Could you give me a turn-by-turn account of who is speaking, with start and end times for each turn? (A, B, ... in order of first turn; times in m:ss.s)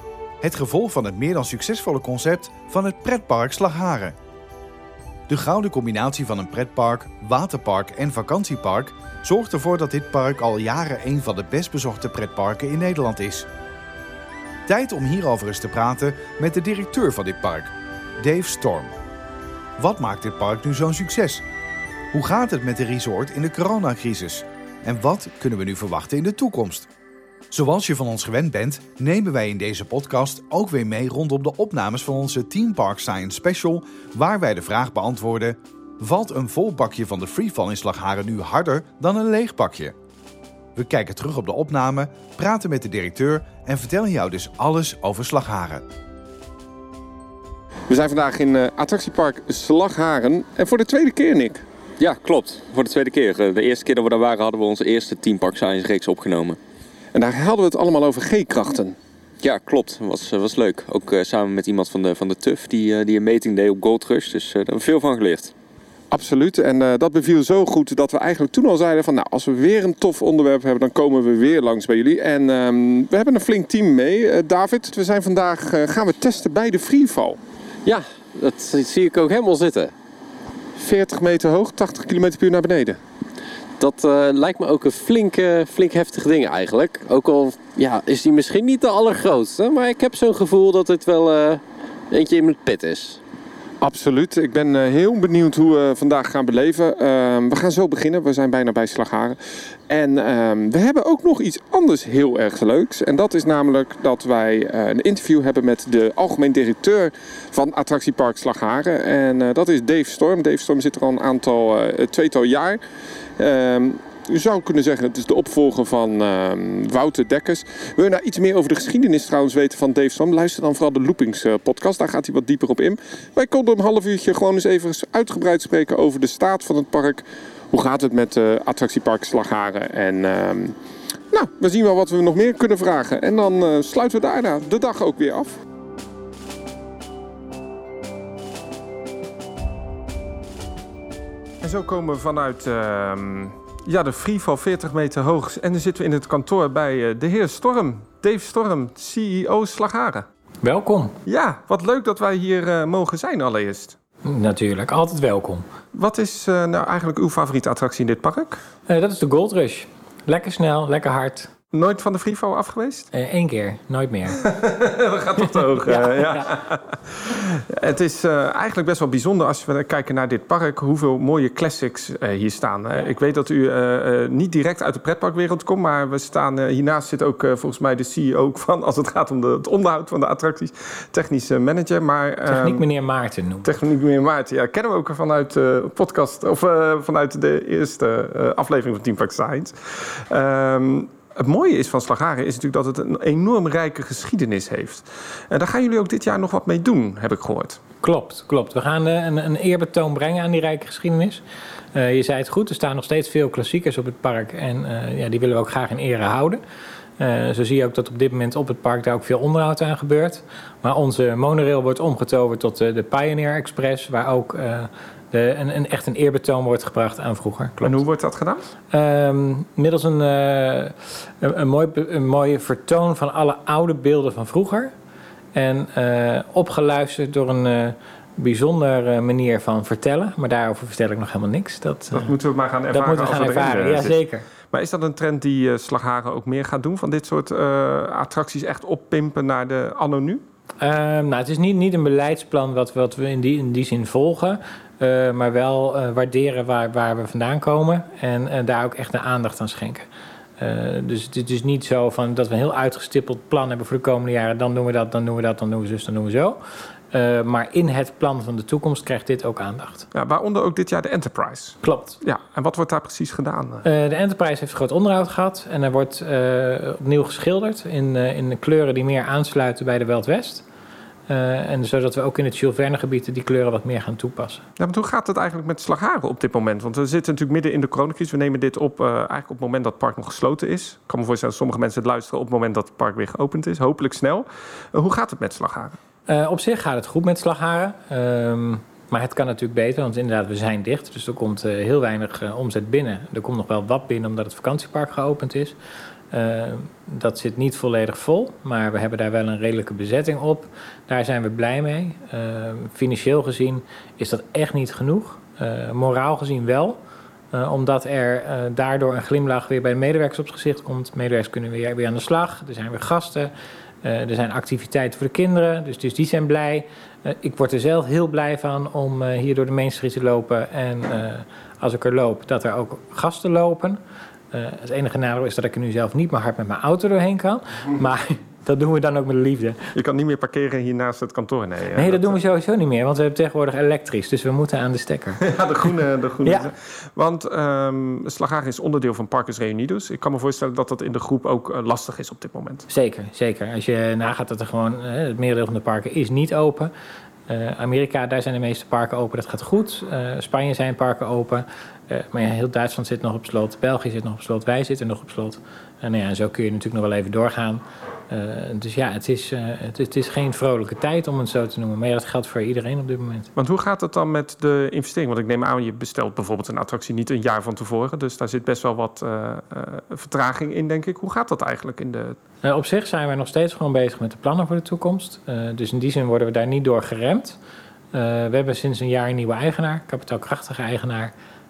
0:00.4-0:04.1 A
0:05.3-0:13.5 A
0:14.7-0:18.9 A
0:19.8-0:21.4 A
0:22.1-0:26.9 A
0:27.5-0:40.0 A
0:40.8-0:45.8 A
0:47.9-0:51.6 B
0:52.0-0:56.6 C
0:57.1-0:59.0 B
0:59.4-1:05.5 C
1:06.1-1:17.4 B
1:17.8-1:19.9 D
1:20.8-1:23.0 B
1:23.8-1:33.2 D
1:33.8-1:39.4 B
1:39.9-1:52.8 B
1:53.4-2:10.8 B
2:11.3-2:15.6 B
2:21.6-2:30.3 B
2:30.6-2:31.2 E
2:31.2-2:34.0 B
2:34.2-2:35.7 E
2:35.9-2:38.6 B
2:38.9-2:41.5 E
2:41.7-2:43.1 B
2:43.1-2:44.4 E
2:44.4-3:02.8 B
2:45.8-2:46.5 E
3:02.5-3:03.7 E
3:03.6-3:17.8 B
3:18.0-3:21.4 E
3:21.9-3:26.6 E
3:27.2-3:38.0 E
3:37.8-3:38.6 B
3:38.9-3:44.9 E
3:45.5-3:52.3 E
3:52.1-3:54.2 B
3:52.9-3:54.4 E
3:54.7-4:00.4 B
4:00.8-4:10.1 E
4:10.6-4:16.6 E
4:17.1-4:20.1 E
4:20.1-4:23.8 B
4:21.8-4:22.2 E
4:23.8-4:30.6 E
4:31.3-4:34.6 E
4:34.8-4:46.0 B
4:46.3-4:55.8 E
4:56.3-5:07.0 E
5:07.5-5:13.5 E
5:14.0-5:24.0 E
5:24.5-5:29.9 E
5:29.9-5:32.4 B
5:32.0-5:35.4 E
5:35.4-5:42.9 B
5:36.4-5:36.7 E
5:42.9-5:46.9 E
5:47.5-6:03.5 E
6:03.6-6:12.4 B
6:12.6-6:17.6 E
6:18.1-6:21.3 E